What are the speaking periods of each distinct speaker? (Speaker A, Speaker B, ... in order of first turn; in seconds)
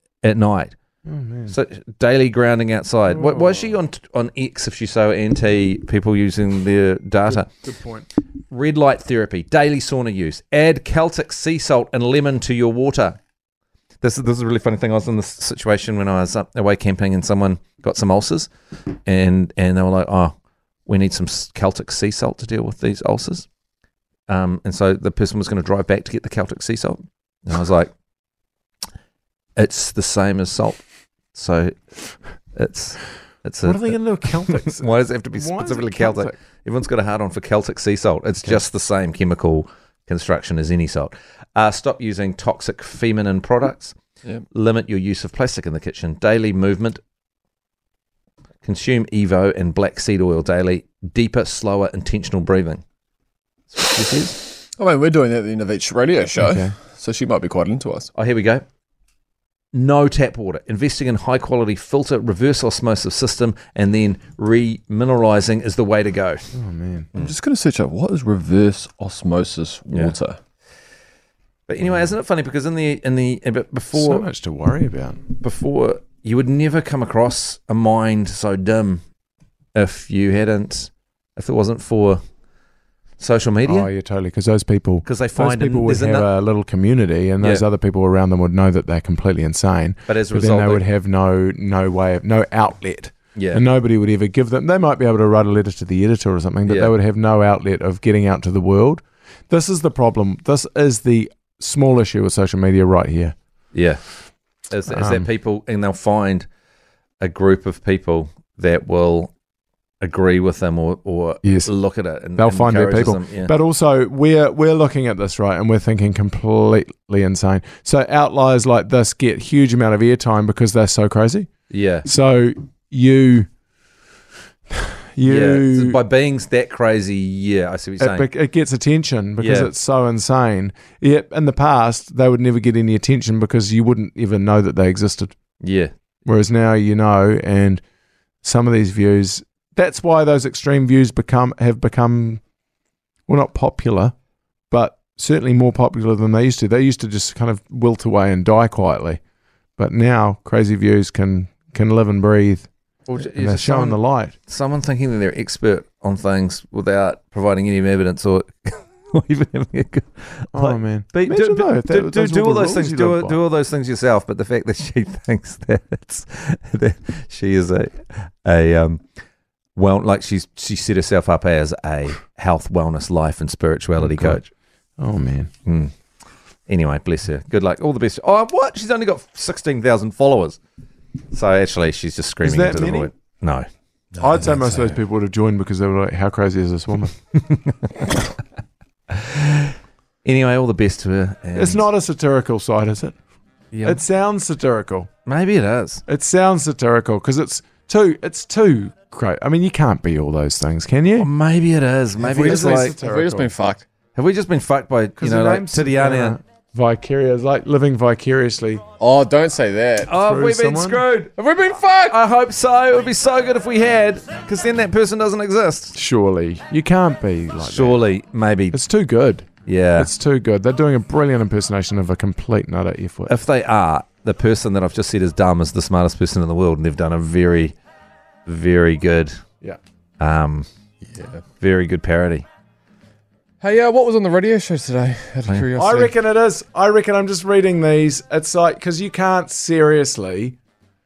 Speaker A: 0.2-0.7, 1.5-7.5, 8.5-13.2, 14.0-18.5, 19.1-20.3, 20.9-23.4, 24.3-27.9, 29.6-30.8, 31.3-31.8, 32.5-43.9, 44.5-47.0, 48.6-52.8, 53.7-54.4, 58.1-58.6, 59.7-66.4, 71.7-74.2, 75.4-79.0, 79.7-82.2, 83.2-83.9, 85.0-86.3, 90.1-90.8, 93.3-93.6, 96.7-96.9, 103.7-104.0, 104.7-106.5, 107.2-109.3, 110.0-113.5, 121.7-122.0, 125.2-128.3, 129.4-129.7, 135.6-135.9, 153.1-169.0, 169.7-174.5, 175.7-175.9, 176.7-180.6, 181.3-183.7, 187.3-188.2, 189.1-191.8, 193.7-194.0, 195.2-196.0, 201.2-202.9, 204.1-206.4, 210.1-211.3, 212.1-215.9, 217.6-218.8, 219.7-220.1, 223.3-227.7, 228.4-229.4, 230.2-230.7, 231.6-232.4
Speaker B: 1.1-1.5, 3.1-3.7, 7.2-8.1, 33.6-36.3, 56.4-56.8, 66.5-67.1, 73.9-75.2, 83.7-103.3, 104.9-105.3, 111.4-111.7, 112.4-121.5, 122.0-123.5, 124.7-126.0, 128.0-135.3, 136.2-137.8, 138.4-142.4, 143.3-144.1, 144.7-149.2, 149.8-154.3, 160.5-163.4, 174.0-174.4, 175.0-175.5, 182.4-183.1, 184.2-187.1, 191.5-193.2, 193.8-195.1, 196.1-201.3, 202.2-203.5, 205.2-208.8, 210.2-211.0, 215.9-218.0, 218.7-223.3, 235.8-240.6
Speaker C: 54.8-58.1, 67.1-70.4, 184.1-184.9, 202.2-203.8, 209.0-210.1, 211.4-212.2, 231.1-231.4, 233.6-236.1